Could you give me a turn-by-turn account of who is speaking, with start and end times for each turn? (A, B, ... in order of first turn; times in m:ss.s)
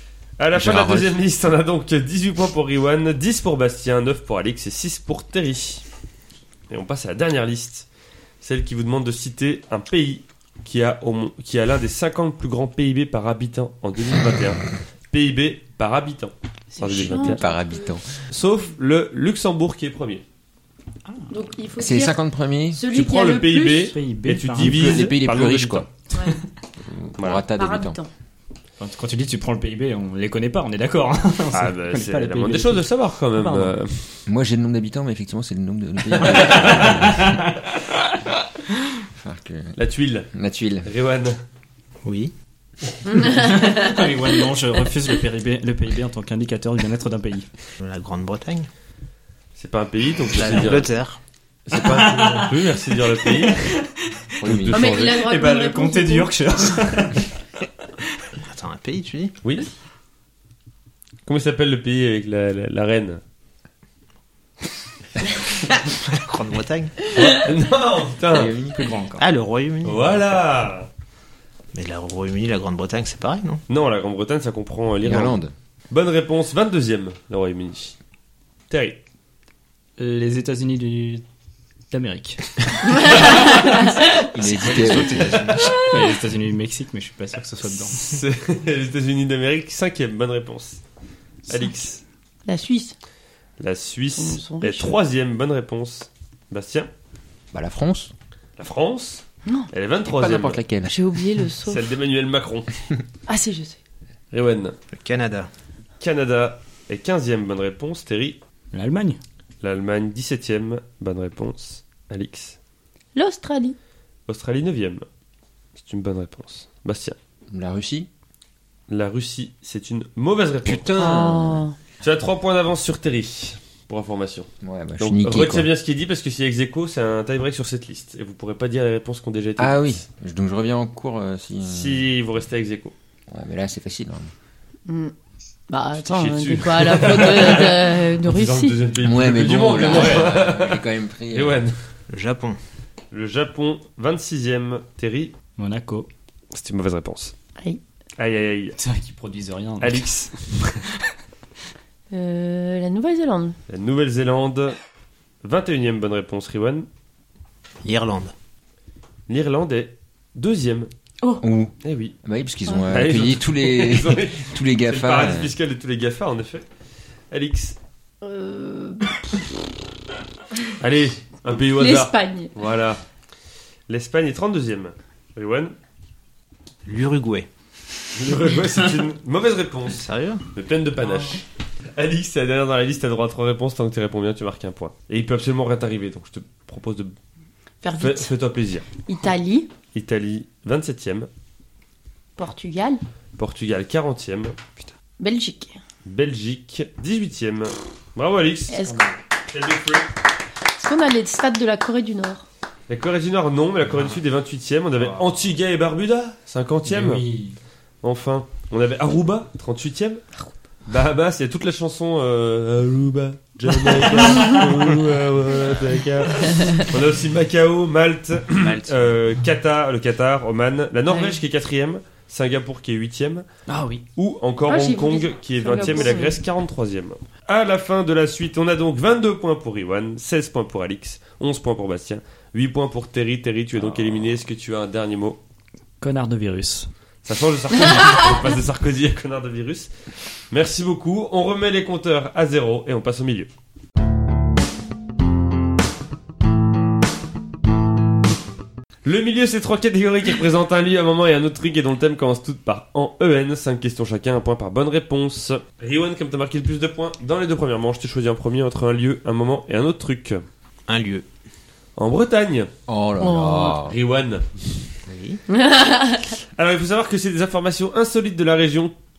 0:00.4-0:05.8 A
0:00.5-0:01.1 B
0:06.7-0:07.8 A
0:08.4-0:17.4 A
0:16.8-0:17.9 C
0:17.2-0:18.0 B
0:18.3-0:20.2 A
0:21.3-0:22.2 C
0:21.8-0:22.8 B
0:22.7-0:23.9 C
0:22.9-0:25.9 A
0:23.7-0:25.0 D
0:24.6-0:25.9 B
0:26.1-0:26.4 C
0:26.8-0:28.0 B
0:27.2-0:27.4 A
0:27.5-0:28.1 C
0:28.8-0:33.7 D
0:31.5-0:34.2 A
0:34.2-0:37.3 B
0:36.2-0:36.8 A
0:36.3-0:37.7 D
0:39.1-0:39.8 B
0:39.8-0:40.3 A
0:40.3-0:40.9 B
0:40.8-0:41.4 A
0:42.0-0:42.3 E
0:43.0-0:43.9 C
0:43.2-0:47.5 D
0:47.8-0:48.7 E
0:49.5-0:50.9 A
0:50.3-0:51.2 E
0:51.7-0:53.8 A
0:51.7-0:52.6 D
0:53.1-0:54.3 D
0:54.4-0:55.0 B
0:54.4-0:55.2 A
0:54.7-0:56.3 C
0:54.9-0:57.3 D
0:58.4-0:59.3 E
0:59.4-0:59.7 A
1:01.2-1:03.2 A
1:05.6-1:07.0 E
1:07.1-1:08.5 A
1:08.3-1:08.8 B
1:08.3-1:09.2 D
1:09.2-1:10.4 E
1:09.8-1:10.9 A
1:11.7-1:13.6 E
1:13.7-1:15.4 A
1:15.0-1:15.5 B
1:15.9-1:18.0 A
1:18.7-1:19.0 A
1:20.0-1:21.2 D
1:21.9-1:23.6 D
1:22.9-1:24.3 C
1:24.3-1:25.7 B
1:24.6-1:28.2 D
1:24.7-1:25.5 A
1:25.6-1:25.9 C
1:27.9-1:30.8 A
1:31.5-1:32.0 A
1:32.4-1:32.9 C
1:33.6-1:36.9 A
1:34.2-1:35.0 C
1:37.5-1:38.1 B
1:38.6-1:40.6 A
1:40.1-1:41.2 B
1:40.9-1:41.9 C
1:41.6-1:42.8 A
1:43.3-1:43.8 C
1:44.3-1:44.8 A
1:44.9-1:45.5 E
1:46.0-1:48.4 A
1:48.7-1:49.2 D
1:49.6-1:52.6 A
1:53.1-1:53.8 C
1:54.3-1:55.0 A
1:55.8-1:57.2 A
1:57.5-1:58.1 B
1:58.9-2:01.2 A
2:00.6-2:01.6 B
2:01.0-2:01.7 C
2:02.0-2:10.0 A
2:04.6-2:05.7 B
2:09.6-2:12.0 B
2:11.6-2:12.9 A
2:13.3-2:14.3 B
2:14.9-2:15.1 C
2:15.7-2:18.8 C
2:16.0-2:21.8 A
2:19.0-2:21.6 B
2:22.1-2:22.6 E
2:23.1-2:25.3 A
2:25.6-2:26.1 D
2:26.5-2:27.3 A
2:28.2-2:28.8 A
2:28.8-2:30.1 D
2:29.8-2:30.8 A
2:32.1-2:33.6 C
2:33.7-2:34.8 A
2:35.4-2:36.9 A
2:37.8-2:38.3 E
2:39.3-2:40.9 A
2:41.4-2:45.5 B
2:41.8-2:42.1 A
2:42.9-2:46.6 A
2:47.3-2:47.8 A
2:48.2-2:49.5 C
2:50.8-2:53.0 A
2:51.7-2:52.5 C
2:53.9-2:55.7 A
2:56.8-2:57.5 E
2:58.2-3:01.4 A
2:59.9-3:00.4 E
3:02.0-3:07.1 A
3:07.8-3:08.3 C
3:08.0-3:08.9 A
3:09.0-3:09.7 C
3:09.9-3:11.3 A
3:12.4-3:13.0 C
3:13.4-3:14.6 A
3:15.2-3:15.8 C
3:16.0-3:18.9 A
3:18.7-3:19.0 C
3:19.5-3:20.1 A
3:20.8-3:22.4 C
3:22.9-3:27.2 A
3:26.8-3:27.6 D
3:28.0-3:30.2 A
3:30.9-3:43.4 A
3:34.2-3:34.6 D
3:36.5-3:36.8 C
3:41.1-3:41.3 C
3:43.7-3:44.0 D
3:44.2-3:55.4 A
3:44.6-3:46.4 C
3:56.0-3:56.9 D
3:57.2-3:59.9 A
4:00.5-4:03.5 A
4:09.0-4:20.4 A
4:20.9-4:21.2 E
4:22.0-4:22.7 A
4:22.9-4:23.9 B
4:23.2-4:23.8 C
4:23.8-4:24.7 A
4:25.0-4:25.4 E
4:25.5-4:26.4 C
4:26.6-4:28.9 A